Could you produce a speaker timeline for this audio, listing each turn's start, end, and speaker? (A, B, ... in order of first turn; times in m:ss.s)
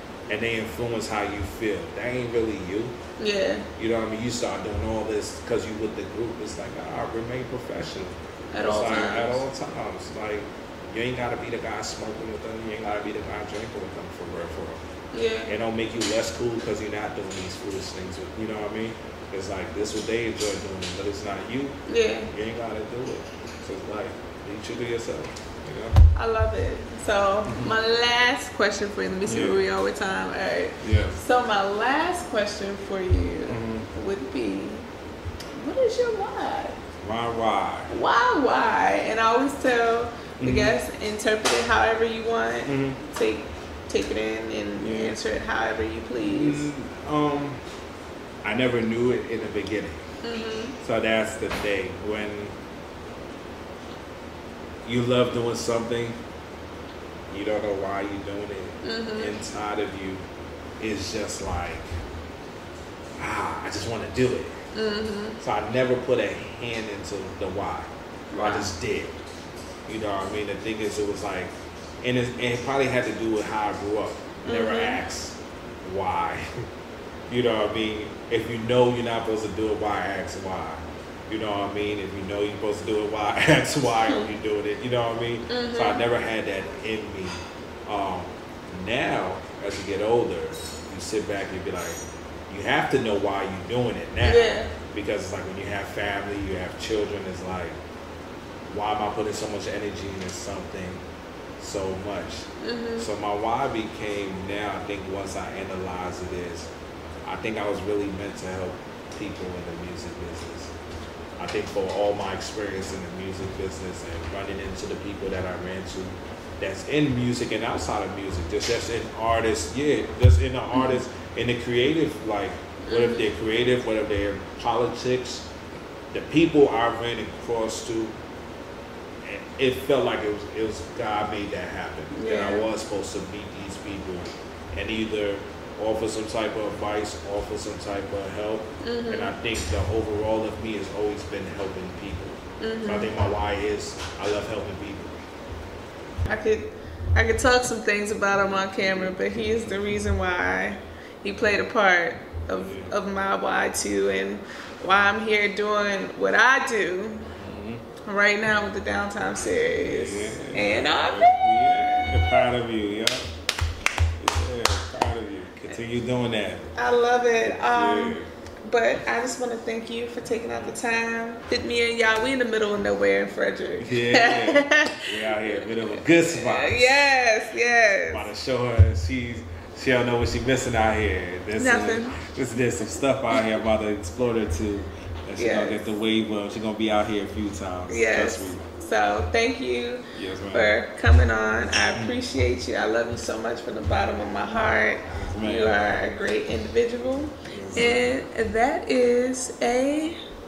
0:00.3-0:03.0 A
0:03.2-0:03.7 B
0:03.8-0:14.8 A
0:08.5-0:09.4 B
0:15.1-0:15.6 B
0:15.5-0:21.8 A
0:21.9-0:22.3 B
0:22.3-0:26.0 A
0:26.1-0:34.8 B
0:27.4-0:27.8 A
0:29.2-0:29.6 A
0:30.8-0:31.2 A
0:33.4-0:33.9 A
0:35.6-0:36.8 B
0:37.0-0:37.9 A
0:37.9-0:46.7 B
0:40.4-0:40.8 A
0:42.6-0:43.0 A
0:44.8-0:45.2 A
0:46.2-0:47.6 A
0:48.4-0:50.0 A
0:50.2-0:50.8 B
0:50.8-0:52.5 A
0:54.8-0:56.2 A
0:57.3-1:00.2 A
0:58.8-0:59.3 B
1:00.8-1:01.8 A
1:03.2-1:04.5 A
1:04.7-1:05.4 B
1:05.4-1:09.2 A
1:08.3-1:08.7 B
1:09.9-1:11.5 A
1:12.0-1:16.5 A
1:14.4-1:15.0 B
1:17.3-1:37.8 A
1:25.5-1:26.0 B
1:34.2-1:34.7 B
1:38.7-1:41.0 A
1:41.6-1:46.7 A
1:42.6-1:43.1 B
1:47.2-1:50.7 A
1:51.4-2:05.5 A
2:00.7-2:01.0 B
2:02.8-2:03.3 B
2:06.1-2:08.1 A
2:09.2-2:25.2 A
2:12.1-2:12.7 B
2:18.8-2:19.3 B
2:22.6-2:23.1 B
2:26.2-2:37.3 B
2:32.5-2:32.9 A
2:37.3-2:37.8 A
2:38.0-2:41.3 B
2:39.8-2:43.3 A
2:44.2-2:46.7 A
2:46.7-2:58.3 B
2:47.4-2:48.3 A
2:53.8-2:57.1 A
2:58.0-3:08.6 A
3:01.6-3:02.2 B
3:05.4-3:05.8 B
3:07.9-3:20.2 B
3:10.2-3:10.7 A
3:11.9-3:12.2 A
3:15.1-3:15.8 A
3:17.5-3:18.1 A